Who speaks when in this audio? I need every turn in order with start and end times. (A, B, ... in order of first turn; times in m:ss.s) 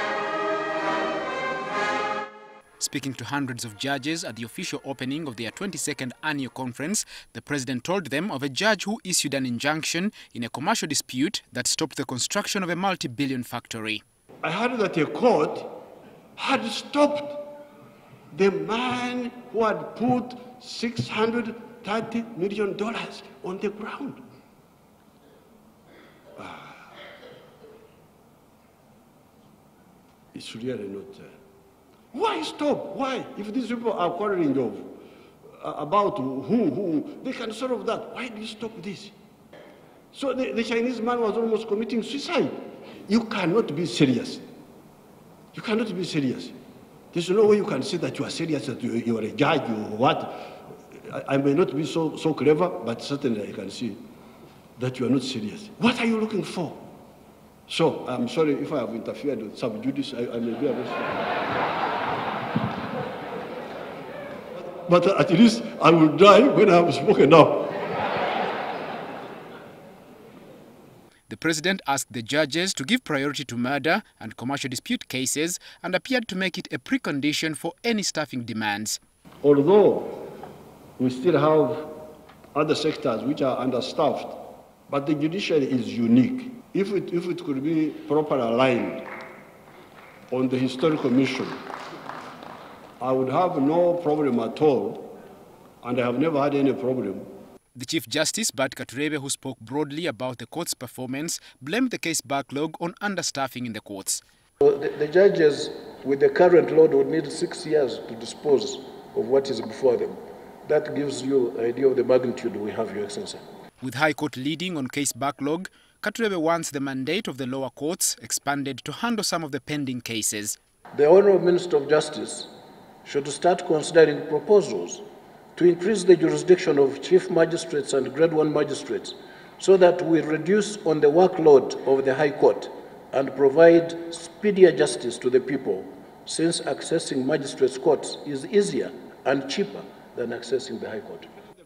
0:02.8-0:14.0 A
0:14.4-0:15.7 B
0:16.4-0:17.5 B
0:18.3-0:24.2 B
0:26.4-0:26.8 B
0:30.3-0:31.3 B
0:32.1-0:35.0 B
0:35.6-0:39.1 B
0:40.1-0:42.5 B
0:43.1-0:44.4 B
0:45.5-0:46.6 B
0:47.1-0:50.3 B
0:50.9-0:54.0 B
0:54.8-0:56.8 B
0:57.7-1:01.2 B
1:04.8-1:07.7 B
1:11.3-1:19.0 A
1:19.4-1:20.1 B
1:21.0-1:22.0 B
1:22.5-1:29.0 B
1:30.3-1:31.6 B
1:33.0-1:35.1 B
1:35.8-1:37.2 B
1:37.7-1:44.2 A
1:44.6-1:53.4 C
1:53.8-2:00.6 A
2:00.9-2:02.5 C
2:03.0-2:21.3 C